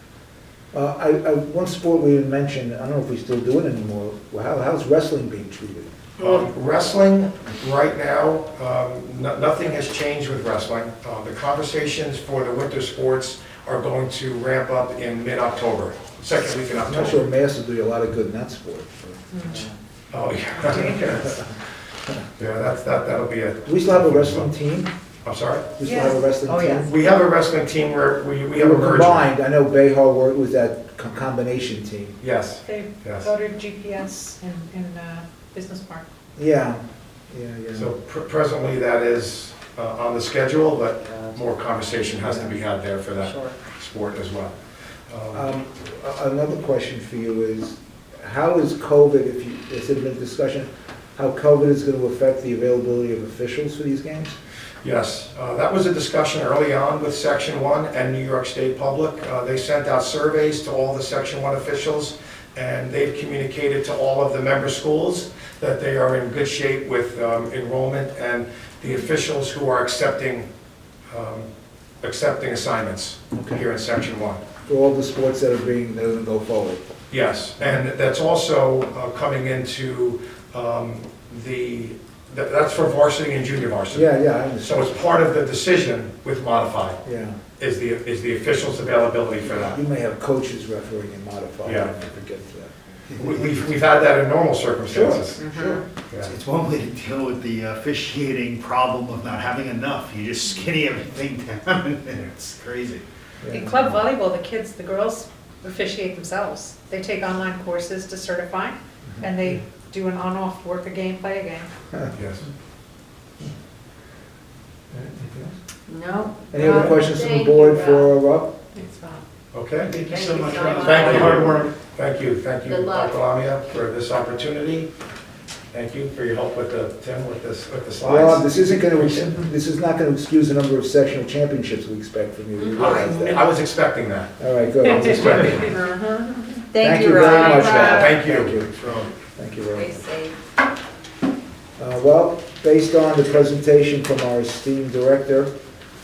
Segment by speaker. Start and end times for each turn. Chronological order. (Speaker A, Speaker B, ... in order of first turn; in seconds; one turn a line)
Speaker A: 0.7-5.9
Speaker B: 6.2-17.2
Speaker A: 16.8-19.7
Speaker C: 19.4-19.6
Speaker B: 20.1-21.5
Speaker B: 22.4-24.5
Speaker A: 23.6-24.9
Speaker B: 25.2-25.7
Speaker A: 25.8-26.9
Speaker C: 25.8-26.1
Speaker D: 25.9-26.9
Speaker B: 26.9-29.3
Speaker A: 28.5-32.2
Speaker B: 32.2-33.3
Speaker C: 32.6-36.0
Speaker A: 36.4-37.9
Speaker B: 37.7-44.5
Speaker A: 42.2-42.5
Speaker B: 45.1-45.5
Speaker A: 45.3-54.3
Speaker B: 54.8-70.5
Speaker B: 71.1-71.5
Speaker B: 72.0-74.4
Speaker A: 73.3-73.6
Speaker A: 74.7-76.8
Speaker B: 77.1-87.0
Speaker A: 83.9-84.9
Speaker A: 87.0-87.4
Speaker B: 87.6-89.8
Speaker A: 89.4-92.7
Speaker B: 91.6-91.9
Speaker B: 93.2-95.4
Speaker A: 94.8-95.8
Speaker D: 95.4-95.8
Speaker E: 96.2-103.0
Speaker A: 103.4-104.0
Speaker C: 103.5-111.7
Speaker B: 112.1-112.5
Speaker A: 115.1-115.5
Speaker D: 115.9-118.1
Speaker A: 116.5-118.5
Speaker C: 118.7-119.2
Speaker B: 119.5-119.9
Speaker E: 119.8-121.7
Speaker D: 120.1-121.5
Speaker B: 120.8-124.9
Speaker D: 122.7-123.2
Speaker B: 125.7-129.3
Speaker A: 128.0-133.4
Speaker D: 132.6-133.4
Speaker B: 132.7-134.3
Speaker A: 134.4-135.7
Speaker B: 134.9-135.8
Speaker D: 135.5-138.2
Speaker A: 136.7-138.7
Speaker B: 137.3-138.6
Speaker E: 138.7-139.1
Speaker A: 139.3-140.1
Speaker D: 139.7-140.4
Speaker A: 141.8-145.5